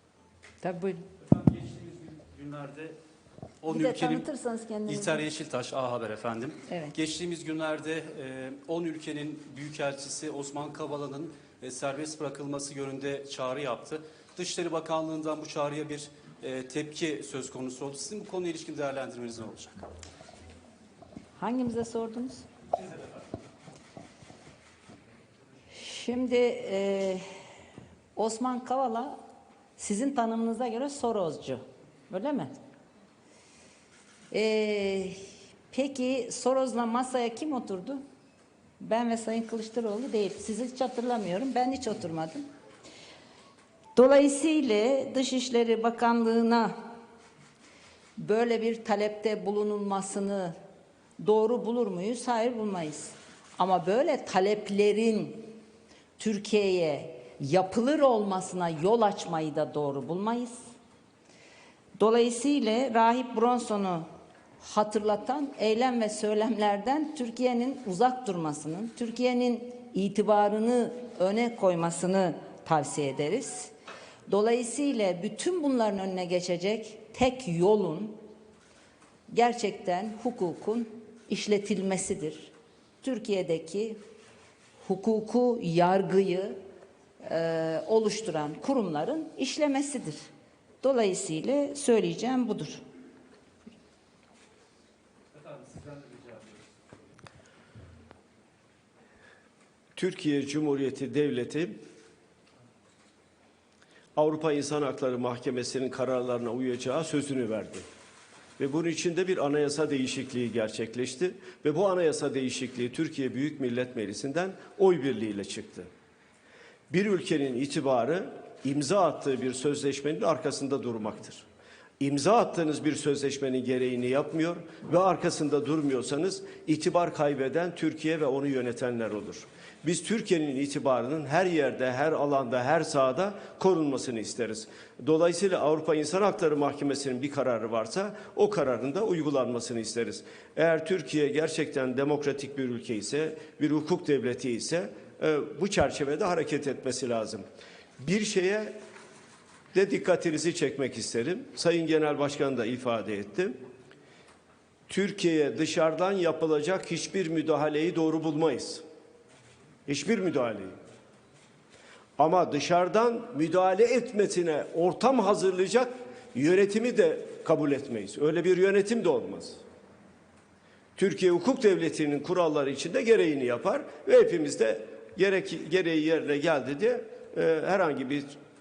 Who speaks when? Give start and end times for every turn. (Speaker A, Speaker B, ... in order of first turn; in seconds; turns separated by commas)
Speaker A: 0.6-1.0, Speaker B: 1.2-3.0, Speaker B: 3.6-4.2, Speaker A: 3.7-5.2, Speaker B: 4.9-19.9, Speaker A: 6.7-6.9, Speaker A: 21.4-22.4, Speaker A: 25.7-27.2, Speaker A: 28.1-29.1, Speaker A: 29.8-32.5, Speaker A: 34.3-35.2, Speaker A: 35.7-38.0, Speaker A: 38.8-42.5, Speaker A: 43.9-46.7, Speaker A: 48.2-50.5, Speaker A: 51.2-55.5, Speaker A: 56.2-60.6, Speaker A: 62.0-64.0, Speaker A: 64.6-73.7, Speaker A: 74.3-78.2, Speaker A: 79.3-84.0, Speaker A: 84.8-86.5, Speaker A: 87.2-90.2, Speaker A: 90.8-92.8, Speaker B: 95.3-96.6, Speaker C: 100.0-101.8, Speaker C: 104.2-107.8, Speaker C: 108.6-115.9, Speaker C: 116.9-121.4, Speaker C: 122.0-147.4, Speaker C: 148.0-148.8, Speaker C: 149.7-153.6, Speaker C: 154.9-158.8, Speaker C: 159.9-160.7, Speaker C: 162.2-169.6, Speaker C: 170.9-178.3